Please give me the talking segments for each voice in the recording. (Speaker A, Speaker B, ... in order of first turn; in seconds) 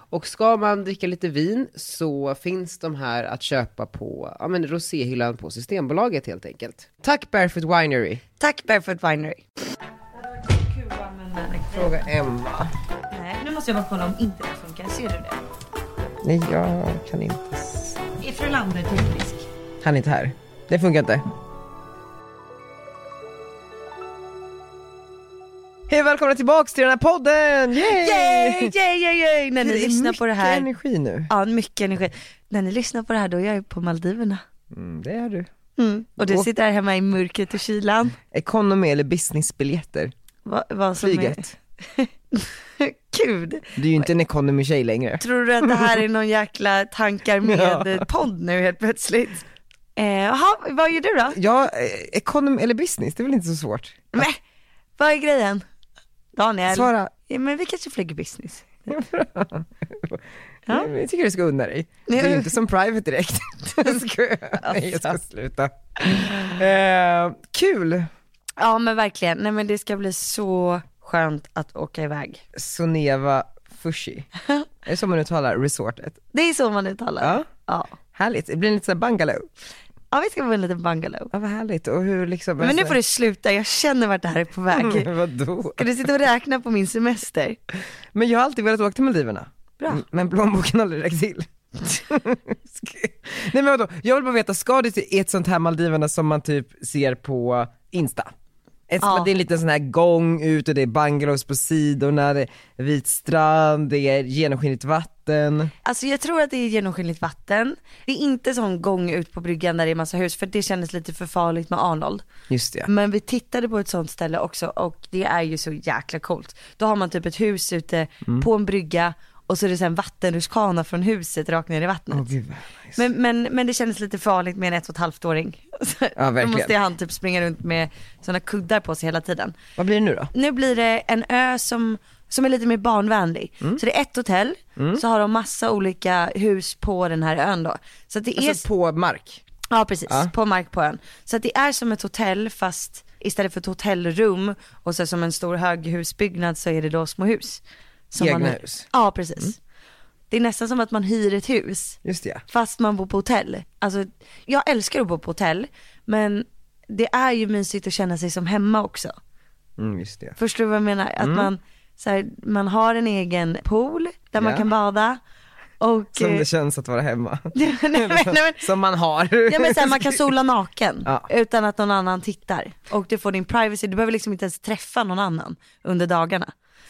Speaker A: 0.1-8.2, 11.7-12.7, 16.2-18.0, 19.8-21.2, 25.9-28.7, 29.6-31.3, 34.7-35.5, 36.2-36.5, 38.3-40.1, 41.0-41.5, 43.8-46.0, 47.5-48.1, 51.3-54.2, 56.7-57.1, 58.9-68.1, 72.5-74.3, 74.8-76.2, 77.2-77.5, 78.1-79.5, 81.3-83.0, 84.7-85.8, 88.1-98.3, 98.9-105.7, 112.5-112.9, 122.1-123.0, 126.2-126.8, 129.8-130.3, 134.8-135.0, 138.4-139.4, 148.2-148.9, 152.0-152.4, 159.8-160.4, 161.2-161.5, 164.4-164.7, 166.1-170.3
Speaker B: 8.4-9.4, 10.2-12.1, 13.1-15.4, 18.2-19.5, 27.8-30.7, 31.3-34.4, 35.8-38.2, 40.5-44.1, 45.2-49.5, 50.0-51.4, 54.1-54.4, 55.0-55.6, 56.4-58.9, 62.1-62.5, 64.6-65.2, 68.6-72.4, 76.3-77.9, 80.1-81.3, 82.6-85.1, 85.8-87.6, 89.8-90.0, 99.0-99.3, 105.8-112.3, 112.8-122.3, 123.0-129.6, 130.3-138.7, 139.7-149.6, 150.3-159.2, 160.4-165.2, 165.8-166.5, 167.5-168.7, 169.5-176.5